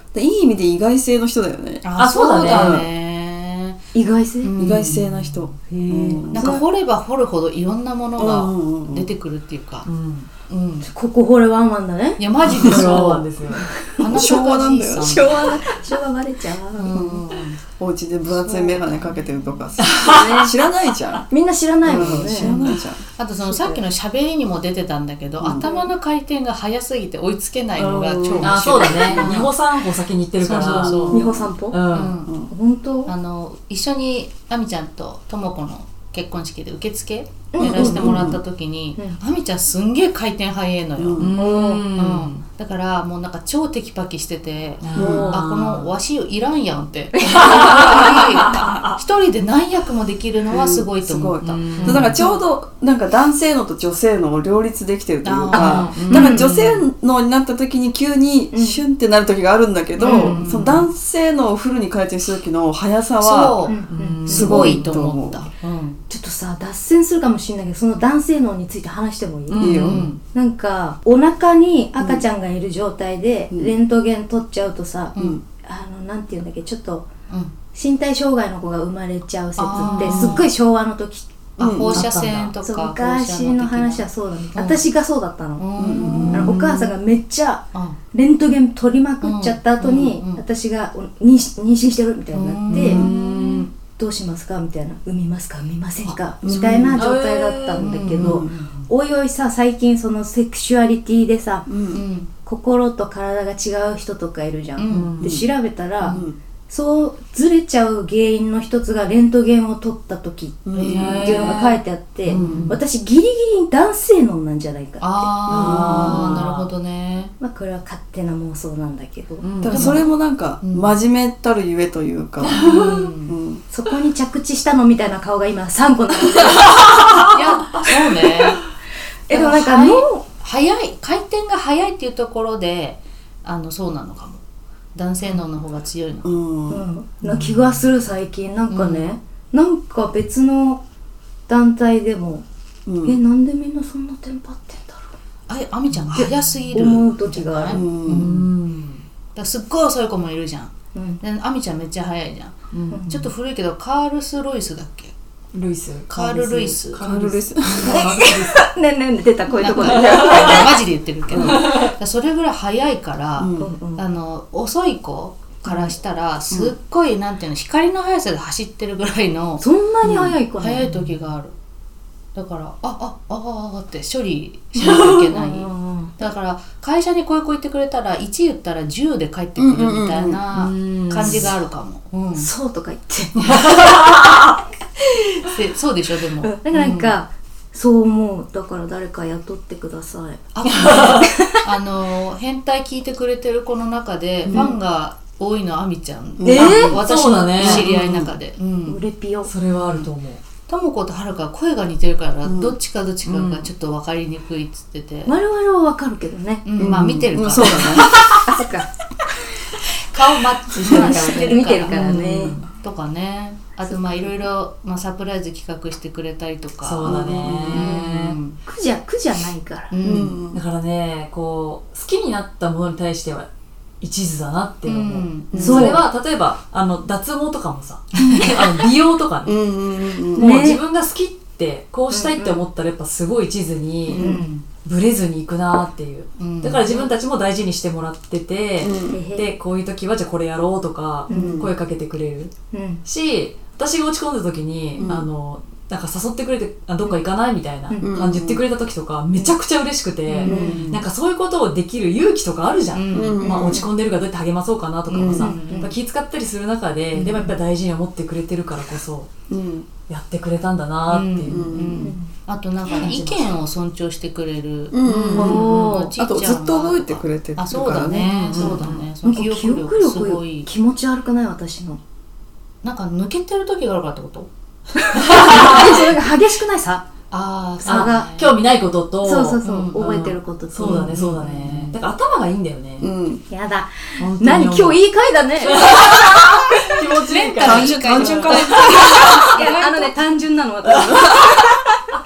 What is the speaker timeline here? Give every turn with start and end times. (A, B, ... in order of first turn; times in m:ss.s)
0:00.1-0:01.8 A
0:01.8-0:03.8 B
0:01.9-0:02.8 C
0:02.4-0:02.9 A
0:03.9-0:04.5 D
0:04.4-0:05.0 B
0:04.6-0:06.6 A
0:04.8-0:05.4 C
0:06.1-0:06.6 D
0:06.3-0:09.9 B
0:08.2-0:09.1 A
0:09.8-0:10.3 C
0:10.5-0:10.9 B
0:10.8-0:12.2 D
0:12.2-0:13.3 B
0:12.4-0:13.7 C
0:12.5-0:13.2 A
0:14.0-0:15.6 B
0:14.0-0:15.3 A
0:15.0-0:17.0 D
0:16.7-0:17.6 B
0:16.9-0:17.2 A
0:17.8-0:21.2 A
0:18.3-0:19.6 B
0:19.8-0:20.5 C
0:20.0-0:20.5 D
0:21.3-0:22.5 D
0:21.8-0:23.0 A
0:22.0-0:22.8 C
0:23.2-0:29.5 B
0:23.5-0:23.8 D
0:25.4-0:25.7 A
0:25.6-0:25.9 D
0:27.8-0:29.4 A
0:28.4-0:32.2 C
0:30.4-0:31.3 B
0:30.5-0:31.5 A
0:31.1-0:31.8 D
0:31.9-0:32.4 B
0:32.2-0:32.5 A
0:32.5-0:33.1 D
0:33.0-0:41.3 B
0:37.5-0:38.3 D
0:37.6-0:38.4 A
0:41.0-0:41.3 A
0:41.2-0:42.4 C
0:41.4-0:41.8 D
0:41.9-0:52.4 B
0:44.8-0:45.9 C
0:44.9-0:45.4 A
0:47.2-0:48.5 D
0:47.2-0:49.0 C
0:50.5-1:03.7 A
0:51.4-0:52.2 C
0:55.2-0:56.5 B
0:55.5-0:56.4 D
0:55.9-0:56.8 C
0:58.5-0:58.8 D
1:00.0-1:00.8 B
1:00.0-1:00.4 D
1:03.2-1:06.0 B
1:03.6-1:04.2 D
1:03.9-1:05.0 C
1:04.3-1:05.4 A
1:06.1-1:17.1 D
1:09.5-1:10.1 C
1:09.6-1:10.0 A
1:09.6-1:10.2 B
1:12.0-1:12.2 A
1:15.2-1:15.4 A
1:17.7-1:21.5 D
1:19.6-1:20.5 B
1:19.8-1:20.4 C
1:21.6-1:24.9 B
1:21.6-1:22.2 A
1:21.9-1:22.4 C
1:22.6-1:25.7 D
1:25.6-1:26.6 B
1:25.8-1:26.6 A
1:26.0-1:26.9 C
1:26.3-1:33.0 D
1:27.7-1:28.0 B
1:29.2-1:30.4 B
1:32.3-1:33.6 B
1:32.7-1:33.7 C
1:33.9-1:41.7 D
1:36.0-1:36.7 B
1:36.4-1:37.0 A
1:36.9-1:38.2 C
1:37.8-1:38.8 B
1:38.2-1:38.5 A
1:41.7-1:42.0 A
1:41.9-1:42.3 B
1:42.4-1:56.0 D
1:44.8-1:45.3 B
1:44.9-1:45.4 C
1:46.0-1:46.4 A
1:50.6-1:51.4 A
1:50.7-1:51.6 B
1:50.9-1:52.8 C
1:52.3-1:52.7 A
1:55.0-1:57.3 B
1:55.5-1:56.4 A
1:55.5-1:56.7 C
1:57.4-1:59.4 D
1:59.4-2:00.0 C
1:59.6-2:03.6 A
1:59.7-2:00.9 B
2:02.4-2:03.1 C
2:02.6-2:03.3 B
2:03.7-2:07.2 D
2:06.6-2:07.8 C
2:07.2-2:08.6 B
2:09.3-2:10.2 D
2:09.3-2:14.4 B
2:14.9-2:16.4 B
2:16.2-2:16.8 A
2:16.7-2:20.8 D
2:18.7-2:19.1 B
2:21.5-2:22.4 D
2:22.8-2:23.2 A
2:23.0-2:25.1 D
2:25.5-2:28.4 B
2:26.2-2:27.9 D
2:27.7-2:28.3 A
2:28.0-2:29.0 C
2:29.4-2:35.1 B
2:30.9-2:31.2 D
2:32.7-2:33.1 C
2:32.9-2:33.3 D
2:35.5-2:38.6 C
2:36.1-2:37.1 B
2:37.0-2:38.1 A
2:37.8-2:40.8 D
2:39.6-2:49.6 B
2:39.9-2:40.6 C
2:40.2-2:40.5 A
2:41.3-2:41.6 A
2:41.4-2:41.9 C
2:43.4-2:43.7 A
2:43.6-2:44.0 D
2:45.6-2:45.9 D
2:49.6-2:50.9 D
2:50.1-2:50.3 A
2:50.6-2:51.5 B
2:52.3-3:02.5 B
2:54.8-2:55.2 C
2:55.3-2:56.1 D
2:59.6-3:00.4 A
3:00.5-3:01.5 C
3:02.4-3:03.9 D
3:03.4-3:04.6 C
3:05.4-3:07.1 B
3:06.4-3:11.6 D
3:10.5-3:19.0 B
3:10.6-3:11.3 C
3:14.5-3:14.8 D
3:16.4-3:17.0 A
3:16.4-3:17.0 D
3:16.4-3:17.9 C
3:17.6-3:18.3 A
3:18.8-3:19.5 D
3:19.4-3:20.4 C
3:20.7-3:25.3 B
3:22.4-3:22.8 A
3:23.2-3:23.7 C
3:25.2-3:26.7 D
3:26.6-3:28.3 B
3:26.8-3:28.3 A
3:28.0-3:28.4 C
3:28.4-3:28.9 D
3:30.1-3:38.6 B
3:30.8-3:32.7 C
3:30.8-3:32.6 D
3:33.8-3:34.3 D
3:36.8-3:38.4 C
3:37.0-3:37.9 A
3:38.7-3:39.9 D
3:39.9-3:40.4 B
3:40.0-3:40.6 A
3:40.5-3:43.5 C
3:44.0-3:49.7 C
3:44.8-3:45.9 B
3:45.5-3:46.0 A
3:45.6-3:46.0 D
3:48.2-3:48.5 B
3:48.2-3:48.5 D
3:49.4-3:50.5 A
3:50.3-4:02.5 C
3:50.3-3:50.8 D
3:52.1-3:52.6 D
3:54.1-3:54.4 A
3:54.1-3:54.6 D
3:56.4-3:57.1 B
3:58.8-3:59.2 A
3:59.1-3:59.5 D
4:01.3-4:01.6 D
4:01.3-4:01.7 A
4:02.7-4:03.0 D
4:03.0-4:19.3 C
4:05.0-4:05.3 A
4:08.0-4:08.6 A
4:10.4-4:10.8 D
4:10.4-4:10.7 B
4:10.4-4:11.0 A
4:12.9-4:13.5 B
4:13.1-4:13.9 A
4:15.1-4:15.6 A
4:15.3-4:15.9 B
4:15.4-4:15.9 D
4:17.2-4:17.5 D
4:19.5-4:19.9 A
4:20.1-4:22.0 C
4:21.1-4:30.7 B
4:21.5-4:22.1 A
4:22.0-4:22.3 D
4:22.9-4:23.5 C
4:24.9-4:28.9 A
4:25.2-4:26.1 D
4:28.3-4:29.0 C
4:29.2-4:32.0 D
4:32.8-4:34.5 B
4:35.0-4:37.0 D
4:35.2-4:36.0 C
4:37.3-4:38.5 B
4:37.8-4:38.5 D
4:37.8-4:43.1 C
4:39.2-4:41.1 D
4:39.6-4:41.9 B
4:43.0-4:43.4 A
4:43.5-4:47.0 D
4:44.2-4:45.0 C
4:45.6-4:49.6 C
4:47.3-4:50.1 B
4:47.6-4:49.4 A
4:49.5-4:51.9 D
4:50.9-4:51.4 C